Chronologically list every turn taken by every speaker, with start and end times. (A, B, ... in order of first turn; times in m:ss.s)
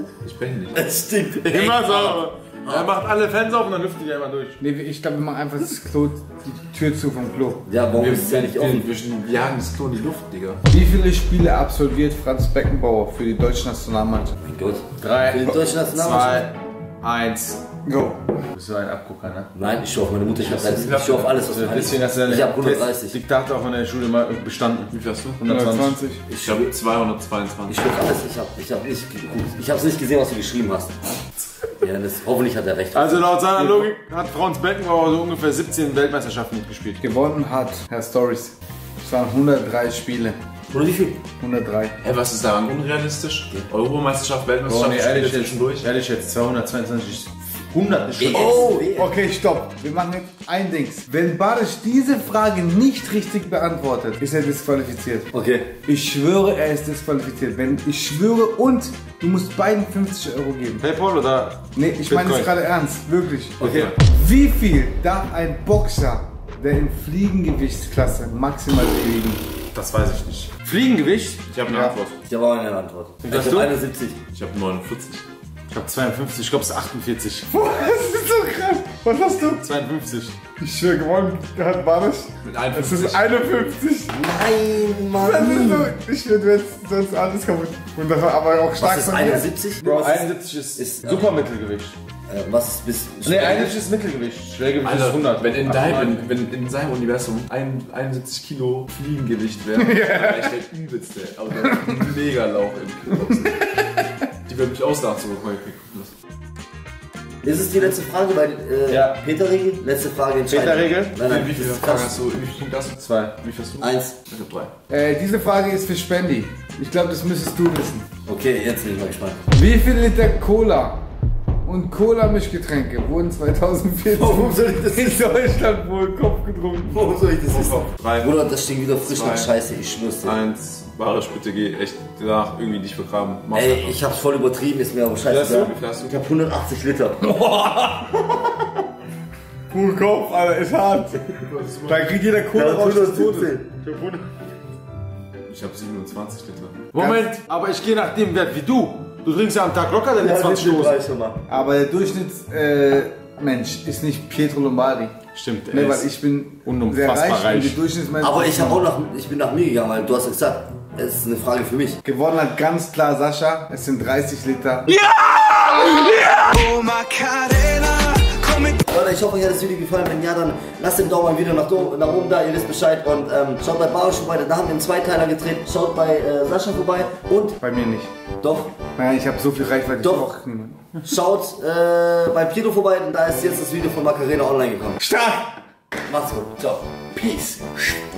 0:00.2-0:00.8 A
0:00.7-0:02.8 B
0:01.4-0:04.6 C
0:04.6-0:07.6 D
0:07.6-0:08.9 B
0:07.9-0:10.6 A
0:10.7-0:14.4 D
0:14.4-0:16.4 B
0:15.0-0:17.7 C
0:17.8-0:18.3 D
0:18.5-0:19.5 C
0:19.5-0:23.2 B
0:20.4-0:21.4 A
0:21.3-0:26.0 C
0:24.9-0:25.4 A
0:25.4-0:26.2 D
0:26.3-0:26.7 B
0:26.4-0:27.9 A
0:27.7-0:31.0 B
0:31.8-0:33.4 B
0:32.9-0:37.0 C
0:37.0-0:40.4 D
0:40.7-0:41.2 B
0:41.4-0:42.0 D
0:42.0-0:45.9 A
0:44.7-0:48.8 C
0:48.2-0:49.1 B
0:48.3-0:55.3 D
0:55.3-0:55.7 B
0:55.8-1:00.8 D
1:00.8-1:02.5 C
1:01.7-1:09.4 D
1:03.6-1:03.9 B
1:03.6-1:03.9 A
1:09.7-1:12.0 C
1:11.5-1:12.1 A
1:11.7-1:12.0 D
1:12.2-1:14.2 B
1:13.2-1:13.7 C
1:14.3-1:15.2 A
1:15.7-1:17.5 C
1:17.5-1:19.6 D
1:19.6-1:20.4 C
1:20.6-1:24.3 D
1:22.4-1:23.3 A
1:24.1-1:25.9 B
1:25.2-1:29.4 D
1:28.8-1:31.3 B
1:29.8-1:32.0 C
1:32.3-1:33.8 B
1:33.2-1:36.2 C
1:34.8-1:43.6 A
1:39.8-1:40.5 D
1:41.7-1:42.0 D
1:44.4-1:46.1 A
1:47.4-1:52.1 B
1:48.9-1:49.2 C
1:50.5-1:51.2 C
1:51.2-1:54.7 A
1:53.1-1:53.3 C
1:53.8-1:54.2 B
1:54.9-1:58.1 D
1:58.2-1:59.4 B
1:59.5-2:01.0 D
2:01.6-2:07.1 D
2:04.1-2:05.3 B
2:06.9-2:10.4 B
2:07.4-2:08.5 A
2:09.0-2:09.5 A
2:10.2-2:14.0 A
2:13.5-2:17.4 B
2:15.3-2:16.2 A
2:17.4-2:18.3 C
2:19.7-2:20.9 C
2:20.9-2:21.2 D
2:21.4-2:22.2 A
2:21.8-2:23.5 D
2:22.5-2:23.7 B
2:23.8-2:24.3 C
2:25.5-2:26.9 A
2:26.9-2:31.0 C
2:30.2-2:31.4 B
2:31.5-2:35.2 D
2:35.3-2:36.0 C
2:35.7-2:38.8 D
2:36.6-2:37.8 C
2:38.2-2:42.0 B
2:42.0-2:45.0 D
2:45.9-2:48.8 D
2:48.9-2:57.6 B
2:57.6-2:58.1 D
2:58.4-2:58.7 B
2:59.0-3:00.8 D
3:00.0-3:00.3 B
3:01.0-3:05.0 B
3:05.0-3:05.6 D
3:06.1-3:07.2 B